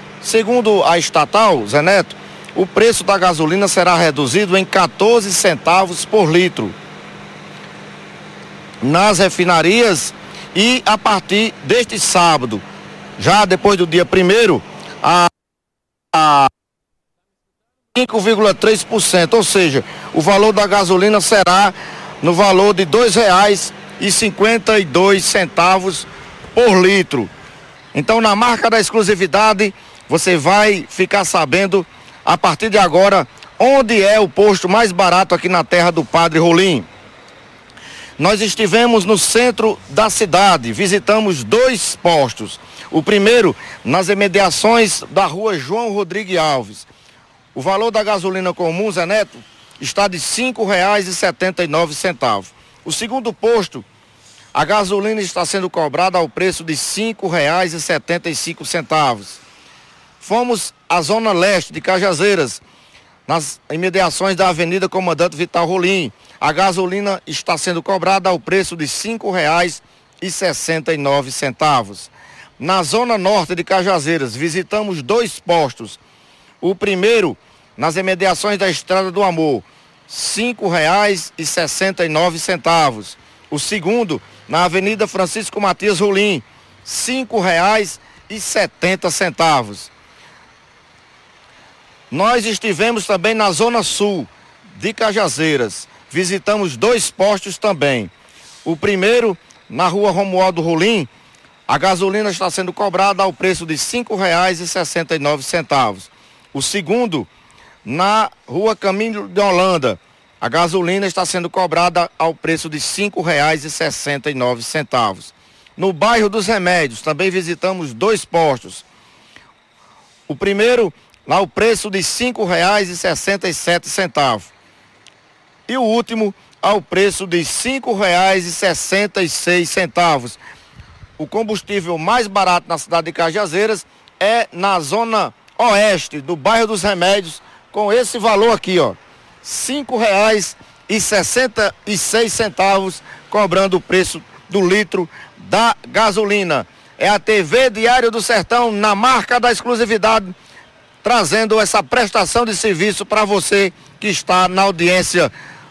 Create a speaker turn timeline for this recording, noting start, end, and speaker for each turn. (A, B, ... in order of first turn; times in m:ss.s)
0:00.2-0:06.8 A
0:08.8-0:12.6 A
0:13.2-0:15.3 A
0:16.1-0:16.5 A
0:17.9-0:27.3 A
0:27.9-0:36.9 A
0:38.2-0:46.9 A
0:47.5-0:53.8 A
0:54.6-0:59.4 A
1:00.2-1:02.6 A
1:03.3-1:16.0 A
1:16.6-1:29.9 A
1:32.1-1:38.1 A
1:38.6-1:41.1 A
1:41.7-1:47.3 A
1:47.8-1:58.9 A
2:00.3-2:04.5 A
2:05.7-2:10.4 A
2:11.2-2:30.3 A
2:31.0-2:35.3 A